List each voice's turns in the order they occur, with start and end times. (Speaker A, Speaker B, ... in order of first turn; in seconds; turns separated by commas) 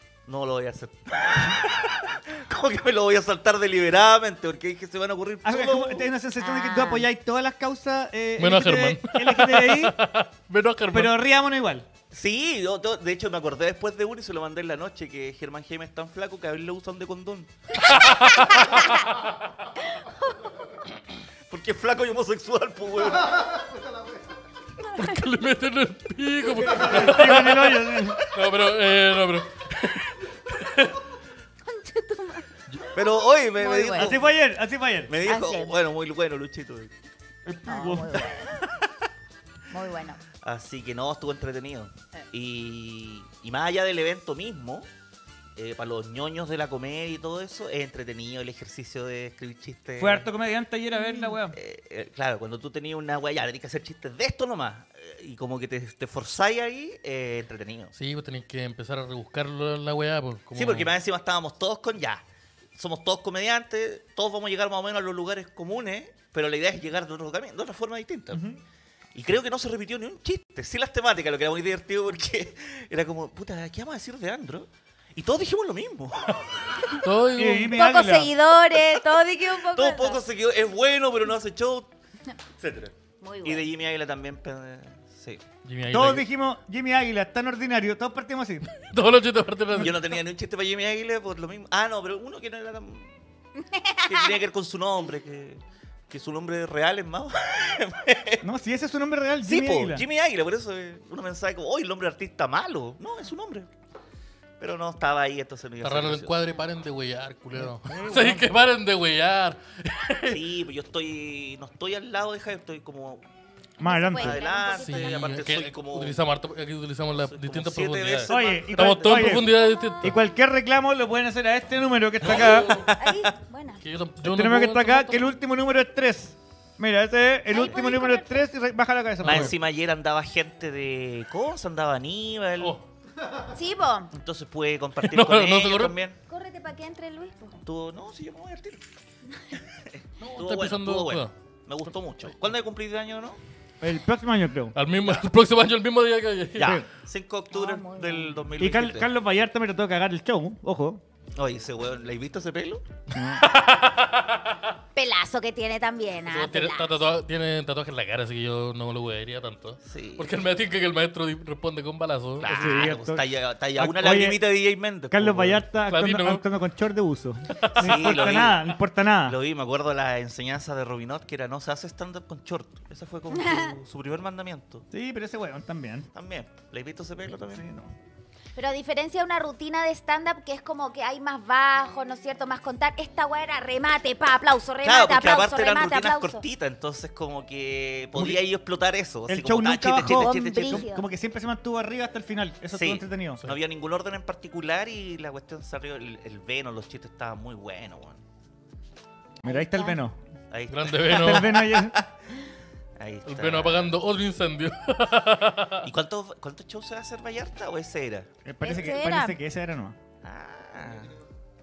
Speaker A: 0.2-6.1, Speaker B: 5.4-9.9, Speaker C: 6.4-7.1, Speaker D: 8.4-11.1, Speaker B: 10.9-11.8, Speaker A: 12.1-17.5, Speaker D: 17.9-19.1, Speaker A: 21.5-23.6, Speaker D: 24.9-31.0, Speaker B: 26.8-28.2, Speaker C: 31.7-32.5, Speaker A: 32.9-34.3, Speaker C: 33.6-34.1, Speaker B: 34.0-35.1, Speaker A: 35.1-36.9, Speaker C: 35.2-35.8, Speaker B: 37.5-38.3, Speaker C: 37.6-38.5, Speaker A: 38.6-38.9, Speaker C: 39.7-40.2, Speaker A: 40.4-44.9, Speaker A: 45.5-50.3, Speaker B: 50.0-51.6, Speaker C: 51.0-51.2, Speaker A: 51.5-57.9, Speaker D: 57.9-60.9, Speaker A: 60.5-62.2, Speaker A: 62.7-68.4, Speaker B: 68.3-68.6, Speaker A: 69.1-76.8, Speaker D: 77.0-77.8, Speaker B: 77.4-78.3, Speaker C: 77.7-80.2, Speaker A: 79.6-81.9, Speaker A: 82.6-85.4, Speaker C: 83.2-83.7, Speaker D: 85.6-86.2, Speaker B: 85.9-88.7, Speaker D: 88.7-90.1, Speaker A: 89.7-93.1, Speaker C: 93.7-94.2, Speaker A: 94.0-98.4, Speaker B: 98.4-100.0, Speaker A: 99.4-103.7, Speaker A: 104.6-106.4, Speaker D: 105.8-110.4, Speaker B: 107.6-108.5, Speaker A: 110.2-113.2, Speaker B: 113.8-114.4, Speaker C: 113.8-115.3, Speaker A: 114.2-116.2, Speaker D: 114.8-120.2, Speaker A: 117.2-119.5, Speaker B: 118.3-119.5, Speaker C: 119.5-120.0, Speaker B: 120.0-123.0, Speaker D: 122.2-122.9, Speaker C: 122.8-123.8, Speaker D: 123.8-125.3, Speaker B: 124.2-129.5, Speaker C: 127.5-128.4, Speaker D: 129.2-129.5, Speaker A: 129.2-132.8, Speaker C: 133.5-134.1, Speaker A: 134.1-136.2, Speaker D: 135.0-135.9, Speaker C: 136.3-137.6, Speaker A: 137.6-138.8, Speaker A: 139.5-143.4, Speaker D: 140.2-141.3, Speaker B: 143.8-144.7, Speaker D: 144.7-146.8, Speaker A: 146.6-149.1, Speaker C: 147.5-148.4, Speaker B: 148.6-151.0, Speaker A: 151.3-152.8, Speaker B: 153.1-153.4, Speaker D: 153.2-154.7, Speaker C: 154.9-156.9, Speaker D: 156.3-163.0, Speaker A: 159.8-160.4, Speaker A: 162.4-165.6, Speaker B: 162.5-163.2, Speaker B: 163.8-164.4, Speaker B: 165.1-169.4, Speaker D: 165.9-166.4, Speaker D: 167.6-168.1, Speaker A: 167.7-174.8, Speaker C: 173.3-173.7, Speaker B: 174.9-176.1, Speaker A: 176.1-177.7, Speaker B: 177.5-177.9, Speaker C: 178.6-186.4, Speaker A: 184.8-190.9, Speaker B: 188.1-188.4, Speaker B: 189.3-193.4, Speaker C: 190.1-191.1, Speaker A: 192.7-198.2, Speaker C: 199.4-200.0, Speaker B: 199.4-200.2, Speaker A: 200.5-202.4, Speaker D: 200.7-201.7, Speaker B: 201.1-202.0, Speaker A: 203.0-203.9, Speaker D: 203.2-205.8, Speaker A: 205.8-208.3, Speaker B: 208.4-209.9, Speaker C: 208.6-209.4, Speaker A: 210.2-211.2